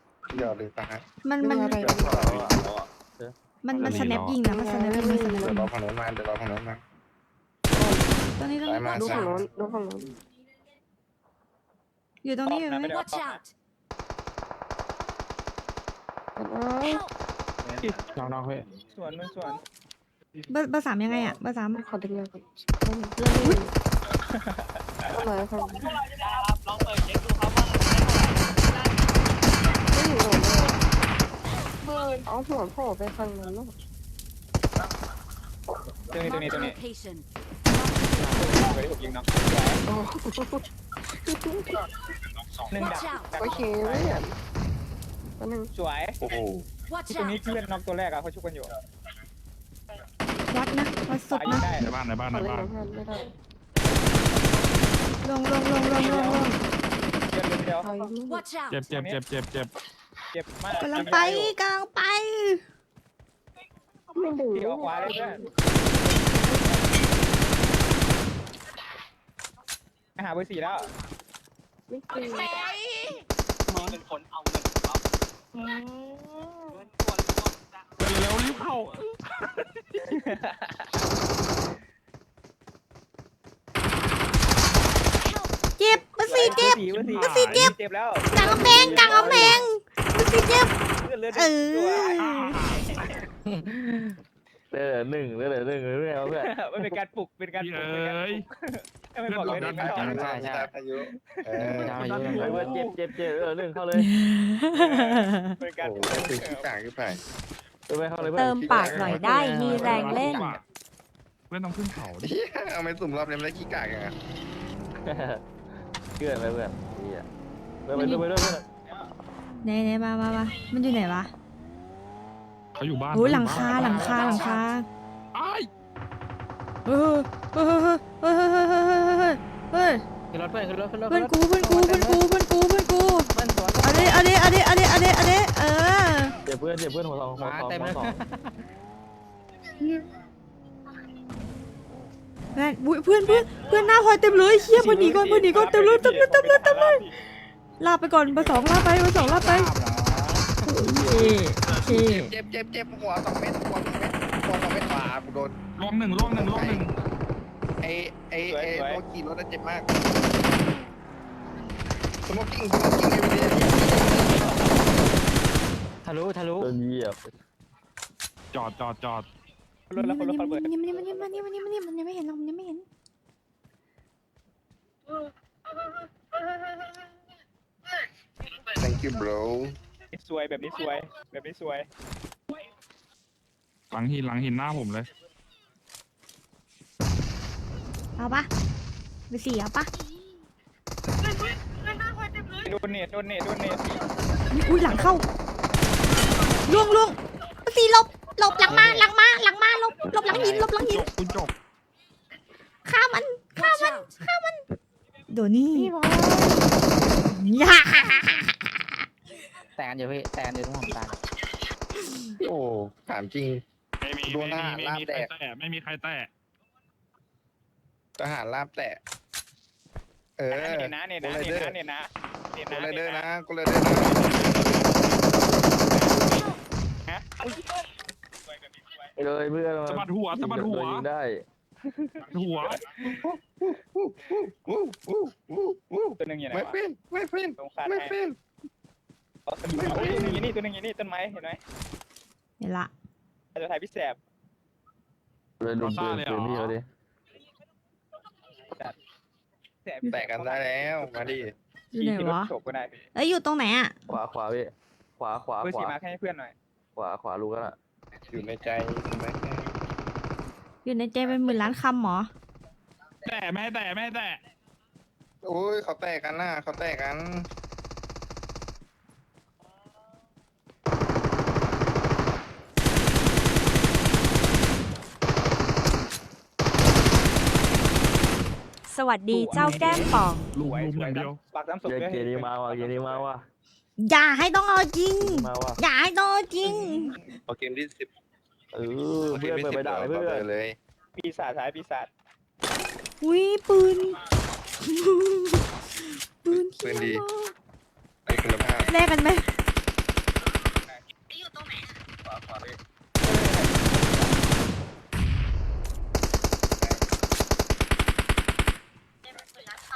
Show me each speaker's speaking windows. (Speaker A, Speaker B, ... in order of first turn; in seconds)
Speaker A: 0.3-2.9, 5.3-6.8, 8.6-9.5, 46.2-46.7, 99.3-102.2, 105.8-107.2, 108.4-110.0, 112.2-114.2, 151.8-155.6, 156.2-156.9, 157.8-159.9, 162.2-164.8, 178.7-179.7, 212.4-213.6, 214.3-215.3, 218.2-219.0, 220.4-221.7, 222.7-226.3, 233.0-238.4, 250.1-251.5, 258.3-259.8, 265.4-267.5, 287.5-288.1, 289.2-290.8, 296.5-297.2, 298.2-298.9, 302.4-302.7
Speaker B: 1.2-2.0, 3.6-5.7, 8.4-9.3, 12.2-12.9, 20.5-21.8, 50.5-51.7, 55.2-56.6, 60.8-62.6, 85.8-87.7, 88.3-90.7, 91.3-92.6, 104.0-105.6, 117.9-118.2, 119.6-121.3, 123.1-124.9, 126.8-130.0, 131.1-133.3, 133.8-136.3, 142.5-147.0, 147.8-149.7, 150.8-152.3, 169.9-172.8, 188.2-188.5, 189.3-189.9, 194.5-195.2, 196.7-201.1, 202.8-204.6, 205.3-205.9, 207.2-208.5, 242.6-242.9, 251.9-252.5, 253.1-253.9, 260.8-262.3, 284.0-287.1, 293.2-294.2, 294.8-297.5, 298.9-299.4
Speaker C: 1.4-2.6, 4.3-5.6, 7.7-8.1, 8.9-10.1, 16.4-17.1, 21.8-23.7, 25.1-25.9, 29.9-30.8, 32.2-33.7, 38.2-38.5, 39.9-40.6, 41.2-41.9, 43.4-44.3, 45.4-45.7, 52.3-53.3, 57.8-58.5, 64.1-65.4, 66.2-66.6, 71.9-72.7, 205.7-206.7
Speaker D: 2.0-2.6, 3.1-4.2, 88.4-89.7, 94.7-96.5, 101.9-104.1, 107.9-109.1, 115.0-115.5, 116.2-117.2, 117.8-118.6, 136.4-138.2, 150.7-151.5, 166.6-167.2, 229.2-231.4, 245.6-246.8, 254.1-255.9, 256.9-257.8, 281.8-283.4, 285.2-285.8, 288.7-290.4
Speaker E: 3.8-4.3, 51.8-52.7, 58.7-59.7, 78.0-80.0, 86.8-87.7, 92.2-93.1, 97.6-98.5, 99.3-100.3, 101.6-103.0, 108.9-110.6, 111.5-112.3, 122.8-124.6, 125.3-125.7, 155.8-156.9, 168.5-169.3, 183.9-185.1, 200.7-201.5, 214.0-216.3, 229.8-231.1, 232.3-232.8, 239.7-240.4, 245.8-246.7, 263.2-264.4, 279.5-281.4
Speaker F: 12.4-13.5, 18.9-19.6, 24.3-25.1, 36.1-36.8, 38.2-39.8, 42.7-44.2, 45.7-46.2, 47.1-48.7, 51.3-51.9, 55.9-56.5, 57.3-57.9, 58.9-59.2, 60.3-61.5, 64.5-65.4, 70.2-70.9, 80.1-80.8, 86.2-89.6, 91.0-93.2, 96.3-100.3, 101.2-101.8, 104.7-106.7, 143.3-143.7, 144.7-147.1, 158.5-159.0, 169.9-170.7, 180.1-181.9, 192.6-194.0, 220.5-227.6, 228.4-229.1, 231.9-232.2, 236.2-236.8, 237.6-238.1, 239.4-241.6, 243.5-244.2, 249.8-251.4, 251.9-253.1, 255.6-256.5, 279.3-283.2, 286.6-287.4, 291.1-292.1, 303.2-304.3
Speaker G: 18.1-18.7, 93.5-94.2, 100.1-100.7, 101.6-102.8, 109.1-110.6, 123.5-124.6, 130.3-132.2, 133.2-134.2, 137.3-138.6, 149.1-150.5, 166.0-166.7, 198.6-199.1, 200.3-200.7, 209.8-211.2
Speaker H: 108.3-110.5, 278.9-280.5